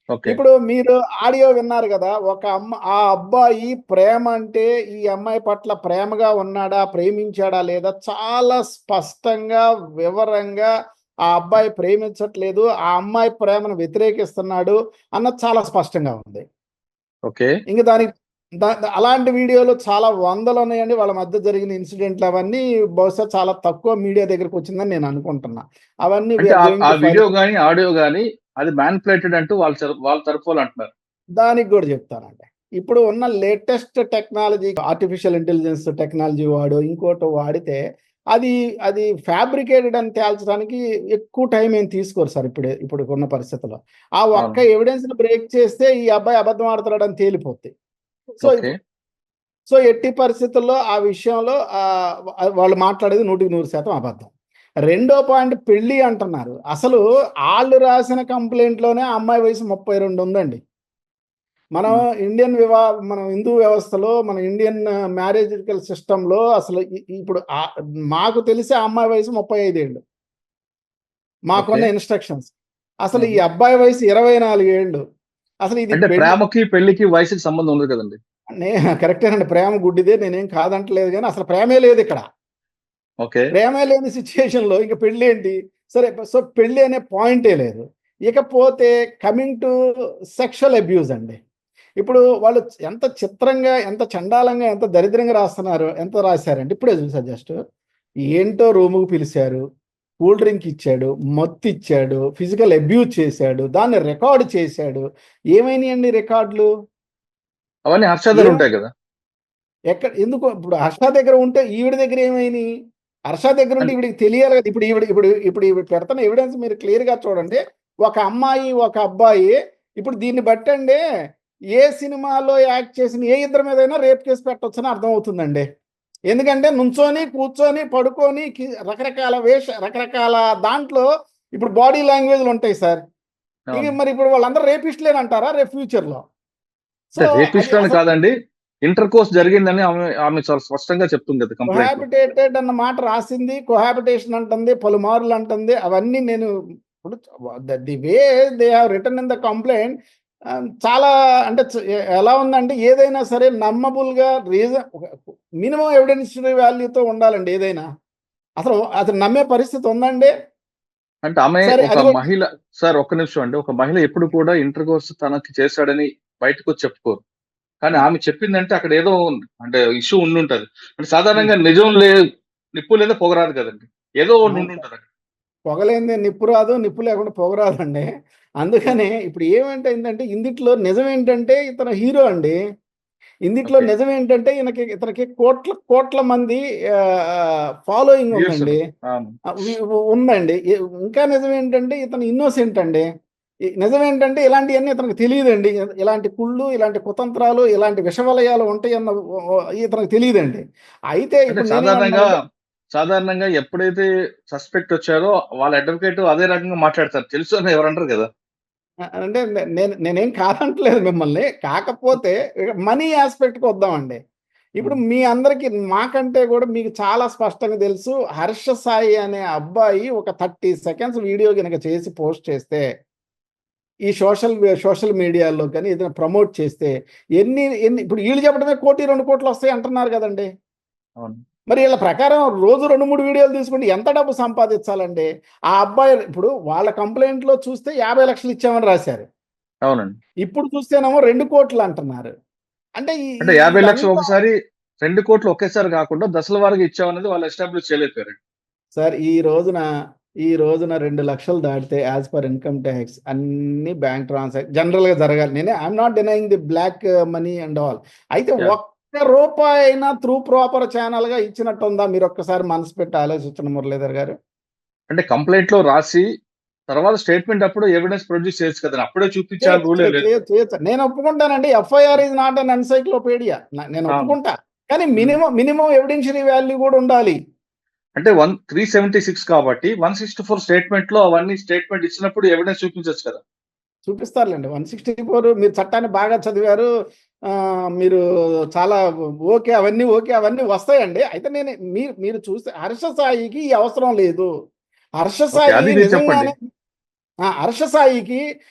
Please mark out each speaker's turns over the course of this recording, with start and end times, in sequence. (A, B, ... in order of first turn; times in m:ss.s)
0:00.1-0:00.4 A
0:00.3-0:10.7 B
0:11.3-0:16.4 B
0:17.3-0:17.5 A
0:17.7-0:27.3 B
0:26.4-0:30.9 A
0:31.4-0:37.8 B
0:38.3-0:47.7 B
0:44.4-0:44.6 A
0:48.3-0:48.7 B
0:48.4-0:48.7 A
0:49.7-0:51.8 B
0:52.6-0:54.3 B
0:54.9-1:00.6 B
1:01.8-1:07.4 B
1:08.1-1:10.0 B
1:11.5-1:12.5 B
1:11.6-1:11.9 A
1:13.0-1:15.0 B
1:15.6-1:16.4 B
1:15.9-1:18.2 A
1:18.6-1:22.2 B
1:23.2-1:23.5 A
1:23.5-1:29.7 B
1:30.4-1:31.4 B
1:32.0-1:37.6 B
1:38.3-1:39.6 B
1:40.2-1:45.0 B
1:45.5-1:46.7 B
1:47.9-1:48.9 A
1:48.3-1:48.6 B
1:49.9-1:52.6 B
1:53.3-2:01.0 B
2:01.8-2:05.6 B
2:06.3-2:13.0 B
2:13.7-2:14.0 A
2:13.7-2:16.2 B
2:17.1-2:18.0 B
2:17.2-2:18.3 A
2:18.9-2:22.0 A
2:21.7-2:26.5 B
2:27.7-2:29.9 B
2:30.8-2:31.7 B
2:32.2-2:37.9 B
2:38.6-2:40.3 B
2:41.2-2:47.2 A
2:41.6-2:42.2 B
2:47.8-2:52.1 A
2:52.8-2:55.0 A
2:55.7-2:58.1 B
2:58.6-3:02.6 B
3:03.5-3:06.6 B
3:03.7-3:03.9 A
3:07.3-3:08.8 B
3:08.3-3:09.3 A
3:09.5-3:13.0 B
3:13.8-3:19.1 B
3:19.8-3:22.3 B
3:21.5-3:22.3 A
3:22.9-3:28.3 A
3:29.2-3:34.2 B
3:34.8-3:42.8 B
3:44.1-3:50.5 B
3:51.7-3:59.2 B
3:59.9-4:00.2 A
4:00.4-4:02.3 B
4:03.0-4:04.3 B
4:03.4-4:08.4 A
4:09.0-4:09.8 B
4:10.4-4:24.3 B
4:25.1-4:26.2 A
4:26.9-4:30.3 A
4:29.6-4:37.4 B
4:38.2-4:43.4 A
4:44.1-4:46.9 B
4:48.8-4:54.5 B
4:55.2-4:56.7 B
4:55.6-4:56.5 A
4:57.5-4:58.4 B